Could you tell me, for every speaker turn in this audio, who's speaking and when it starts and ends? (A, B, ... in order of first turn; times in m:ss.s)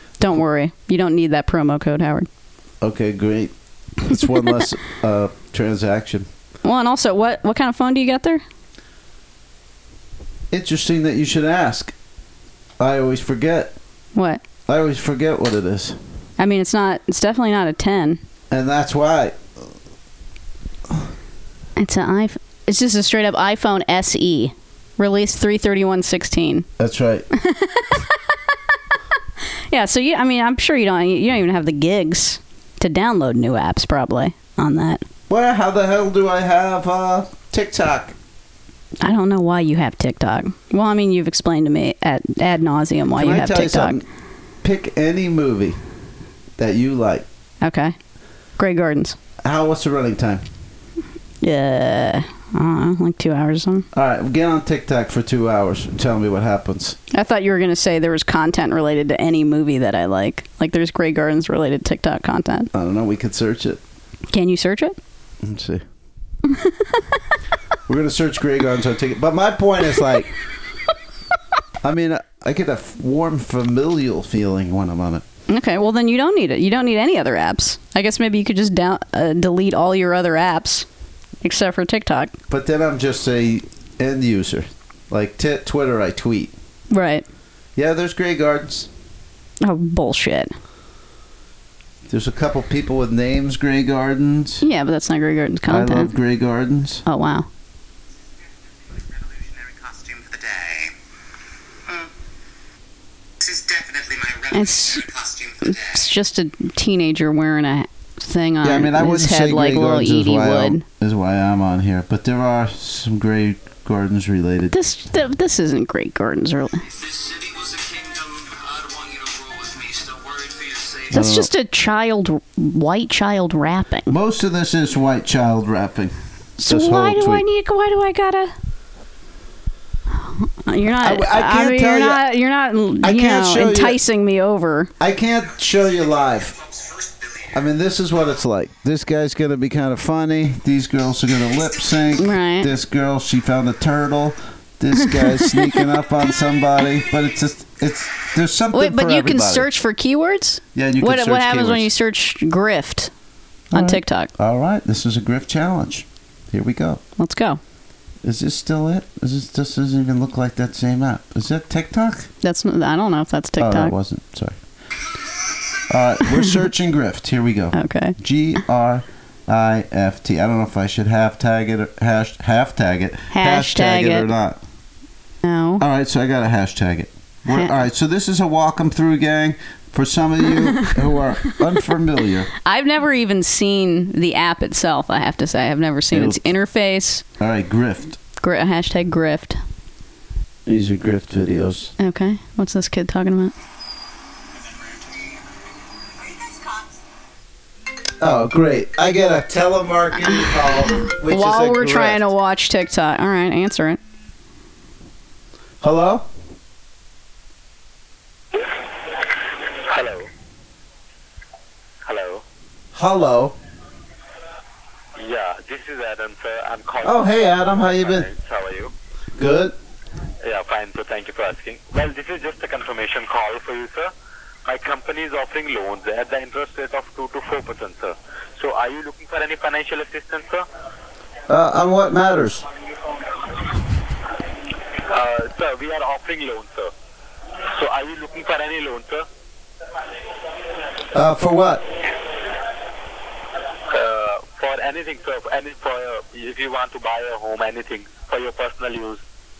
0:00.2-0:02.3 A
0:02.8-0:06.3 B
0:06.6-0:08.4 A
0:10.5-0:11.9 B
0:12.8-0:13.7 B
0:14.1-0:14.4 A
0:14.7-0:16.0 B
0:16.4-0:18.2 A
0:18.5-0:19.4 B
0:21.8-0:26.7 A
0:26.8-0:27.3 B
0:27.3-0:28.6 A
0:29.7-0:35.0 A
0:35.3-0:38.1 B
0:39.0-0:44.0 A
0:43.2-0:44.0 B
0:44.6-0:45.8 B
0:46.6-0:47.2 B
0:47.6-0:48.0 A
0:48.6-0:49.2 A
0:49.4-0:50.4 B
0:51.4-0:53.9 A
0:53.9-0:57.0 B
0:57.1-1:02.7 A
1:02.7-1:03.8 B
1:04.3-1:05.0 A
1:05.4-1:05.8 B
1:06.4-1:07.0 A
1:07.9-1:10.3 B
1:11.8-1:15.2 B
1:15.5-1:20.8 A
1:21.4-1:22.3 A
1:22.5-1:26.5 B
1:26.9-1:27.2 A
1:27.8-1:28.9 B
1:29.6-1:30.5 A
1:32.1-1:34.6 B
1:34.6-1:36.1 A
1:35.7-1:37.0 B
1:37.0-1:37.5 A
1:39.9-1:40.9 C
1:43.4-1:44.5 C
1:44.5-1:50.8 A
1:45.1-1:45.5 C
1:48.6-1:54.7 B
1:54.7-1:56.8 A
1:57.0-2:01.1 C
2:01.1-2:04.1 A
2:01.1-2:01.5 B
2:04.1-2:06.1 B
2:06.6-2:08.5 A
2:06.6-2:07.4 B
2:10.3-2:14.9 A
2:11.0-2:12.2 B
2:13.0-2:14.0 B
2:15.0-2:16.6 B
2:17.5-2:29.7 B
2:22.2-2:22.7 A
2:25.1-2:25.8 A
2:28.7-2:33.1 A
2:30.7-2:31.9 B
2:33.7-2:37.0 B
2:33.7-2:34.3 A
2:37.2-2:37.6 A
2:38.2-2:42.3 B
2:42.4-2:43.9 A
2:43.6-2:44.6 B
2:45.9-2:54.6 B
2:47.7-2:48.2 A
2:53.3-2:54.3 A
2:55.4-2:55.8 A
2:55.8-3:02.5 B
3:02.6-3:07.2 A
3:06.1-3:06.4 B
3:07.4-3:08.2 B
3:08.4-3:09.6 A
3:10.6-3:11.9 B
3:12.0-3:13.5 A
3:18.2-3:22.2 B
3:20.5-3:24.0 A
3:25.8-3:26.2 B
3:29.8-3:30.3 D
3:32.0-3:32.4 D
3:32.9-3:33.5 B
3:35.2-3:38.9 D
3:37.0-3:38.3 B
3:39.4-3:39.7 B
3:40.4-3:44.1 D
3:44.6-3:50.6 D
3:51.5-3:52.6 B
3:55.1-3:56.9 D
3:57.7-3:59.3 D
4:01.1-4:01.8 B
4:03.9-4:09.2 D